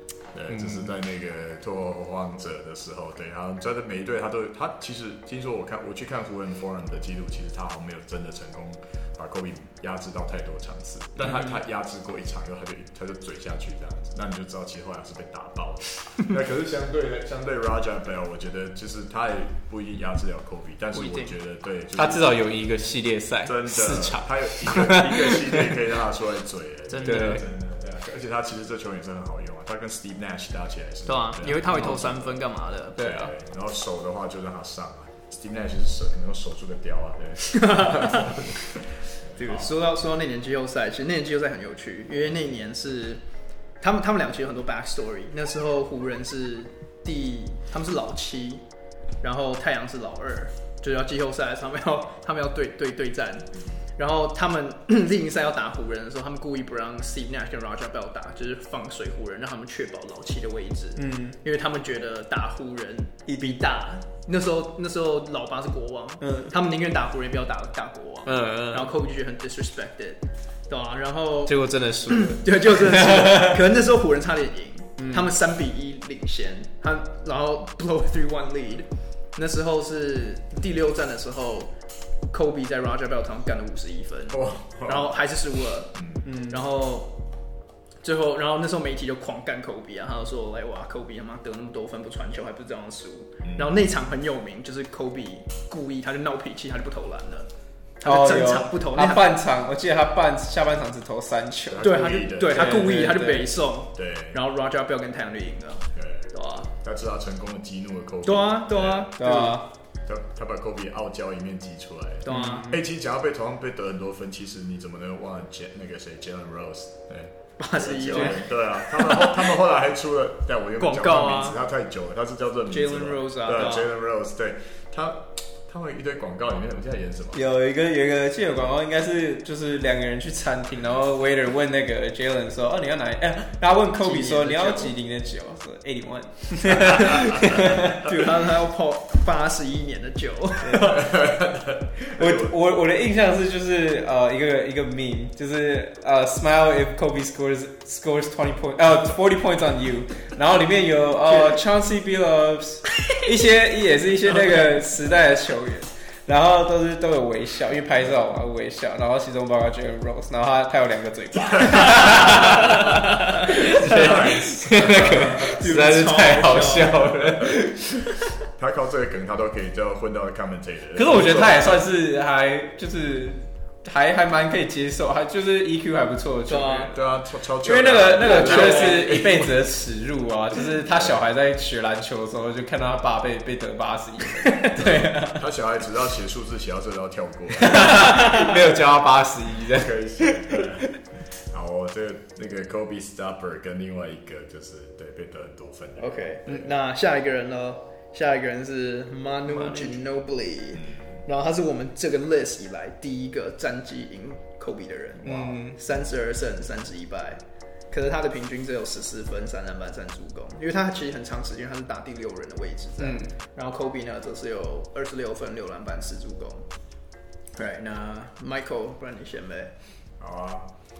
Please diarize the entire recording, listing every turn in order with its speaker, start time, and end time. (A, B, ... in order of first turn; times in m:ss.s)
0:00.3-0:22.5 A
0:00.5-0:00.9 B
0:11.2-0:11.6 B
0:20.9-0:21.4 C
0:22.0-0:25.8 B
0:23.4-0:32.4 A
0:26.9-0:27.4 C
0:27.0-0:27.4 B
0:31.0-0:33.1 C
0:31.7-0:32.0 B
0:33.0-0:33.3 B
0:33.0-0:39.7 A
0:37.5-0:38.4 C
0:39.4-0:43.2 C
0:43.8-0:48.6 C
0:49.2-1:21.7 C
1:01.0-1:01.4 B
1:06.2-1:06.5 B
1:08.2-1:08.9 B
1:11.5-1:13.6 B
1:15.0-1:15.3 B
1:22.3-1:27.2 C
1:24.3-1:25.1 A
1:26.0-1:26.2 A
1:26.2-1:26.6 B
1:28.0-1:37.5 C
1:33.4-1:33.8 A
1:38.0-1:39.3 C
1:38.0-1:43.5 B
1:41.6-1:42.9 A
1:41.8-1:46.7 C
1:43.9-1:44.4 A
1:45.9-1:49.1 A
1:48.2-1:49.6 C
1:49.2-1:49.7 B
1:50.0-2:07.4 A
1:52.2-1:52.7 C
1:52.3-1:52.8 B
1:57.6-1:59.5 C
2:00.8-2:01.6 C
2:02.7-2:03.9 C
2:07.3-2:18.2 B
2:14.0-2:14.9 C
2:16.7-2:21.1 C
2:20.6-2:21.0 B
2:20.8-2:22.5 A
2:22.0-2:48.2 B
2:31.3-2:31.6 C
2:41.6-2:42.5 A
2:42.0-2:44.4 C
2:43.4-2:45.6 A
2:45.0-2:47.3 C
2:48.6-2:51.8 A
2:50.9-3:05.4 B
2:56.5-2:56.9 C
2:56.9-2:59.6 A
2:58.2-2:59.0 C
3:00.9-3:01.2 A
3:04.8-3:08.3 A
3:07.6-3:10.8 B
3:09.6-3:16.7 A
3:16.0-3:36.7 C
3:19.5-3:20.0 B
3:25.2-3:25.8 B
3:33.0-3:33.3 B
3:37.5-3:39.7 C
3:40.2-3:40.7 A